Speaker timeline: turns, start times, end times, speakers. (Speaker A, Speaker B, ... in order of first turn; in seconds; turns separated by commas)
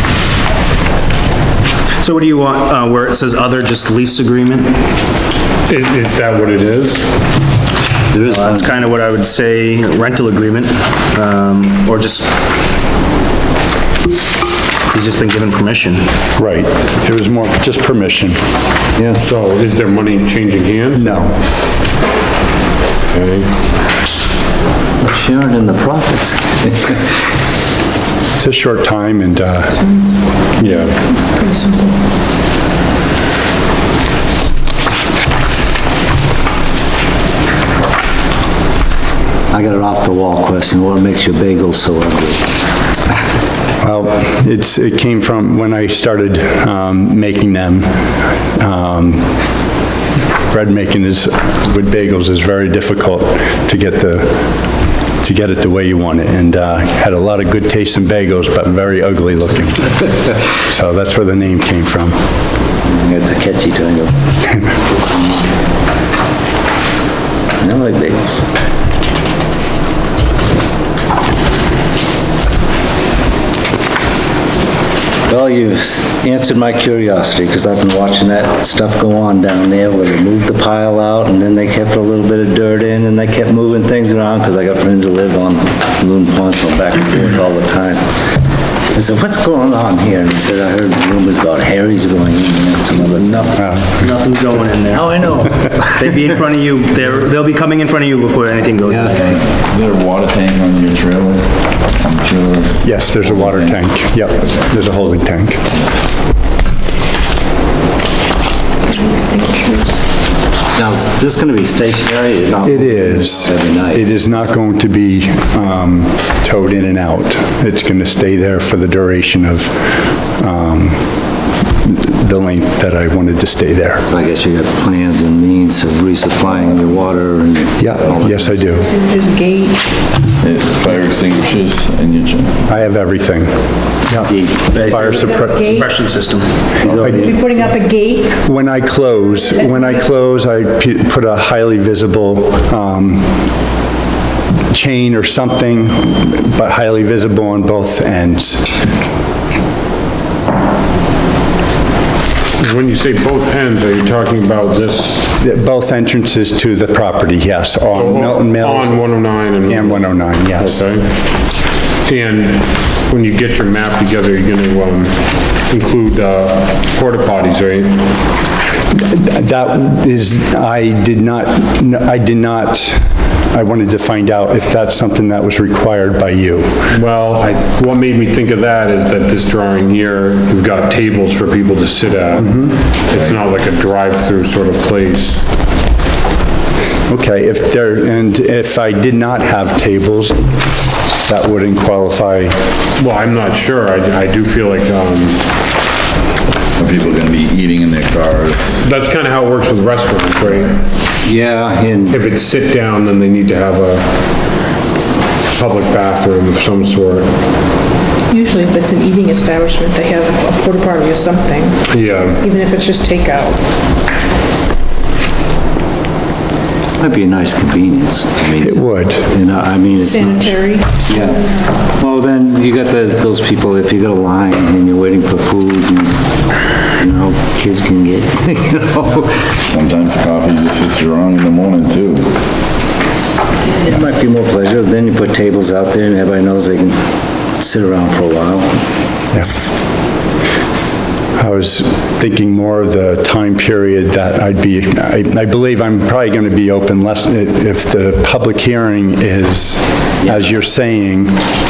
Speaker A: 2.0-4.8, Speaker B: 5.7-7.1, Speaker C: 8.1-8.7, Speaker A: 8.2-12.3, Speaker A: 14.9-16.1, Speaker D: 16.4-18.4, Speaker C: 18.9-19.2, Speaker B: 19.2-21.3, Speaker D: 20.9-21.4, Speaker B: 23.1-23.5, Speaker C: 25.0-27.0, Speaker D: 28.4-29.8, Speaker B: 30.6-31.0, Speaker E: 31.0-31.9, Speaker C: 39.5-42.5, Speaker D: 43.8-49.5, Speaker D: 50.5-60.1, Speaker D: 60.7-62.2, Speaker C: 62.8-64.1, Speaker C: 64.8-65.2, Speaker C: 67.6-68.4, Speaker C: 75.3-88.0, Speaker C: 88.9-93.7, Speaker A: 93.4-99.4, Speaker D: 93.6-94.0, Speaker C: 94.9-95.9, Speaker C: 98.9-99.2, Speaker F: 99.2-103.8, Speaker D: 102.8-105.6, Speaker F: 104.3-104.7, Speaker E: 108.8-110.0, Speaker C: 110.7-114.1, Speaker D: 112.6-124.0, Speaker C: 124.1-128.5, Speaker F: 126.4-127.2, Speaker D: 127.8-128.9, Speaker F: 127.8-128.6, Speaker E: 128.9-129.8, Speaker F: 130.4-132.7, Speaker D: 132.7-134.3, Speaker C: 134.2-134.7, Speaker A: 134.7-136.5, Speaker D: 134.8-135.7, Speaker C: 136.8-137.4, Speaker D: 136.9-137.7, Speaker E: 137.5-138.3, Speaker D: 138.3-143.5, Speaker D: 144.7-148.9, Speaker B: 152.6-155.3, Speaker D: 155.4-160.8, Speaker B: 157.9-161.1, Speaker B: 162.0-168.1, Speaker D: 168.9-176.9, Speaker B: 176.9-185.4, Speaker D: 182.4-182.8, Speaker F: 183.1-183.4, Speaker D: 187.1-190.4, Speaker D: 191.2-192.6, Speaker B: 193.0-195.4, Speaker F: 196.8-198.8, Speaker B: 198.8-200.8, Speaker C: 201.2-202.2, Speaker B: 202.1-204.2, Speaker B: 205.5-207.3, Speaker E: 208.3-211.9, Speaker B: 211.9-212.4, Speaker E: 212.4-213.6, Speaker C: 217.0-226.2, Speaker D: 218.6-219.3, Speaker E: 220.3-220.9, Speaker C: 227.0-229.4, Speaker F: 229.7-232.3, Speaker C: 233.7-237.0, Speaker C: 237.6-238.7, Speaker D: 241.4-251.4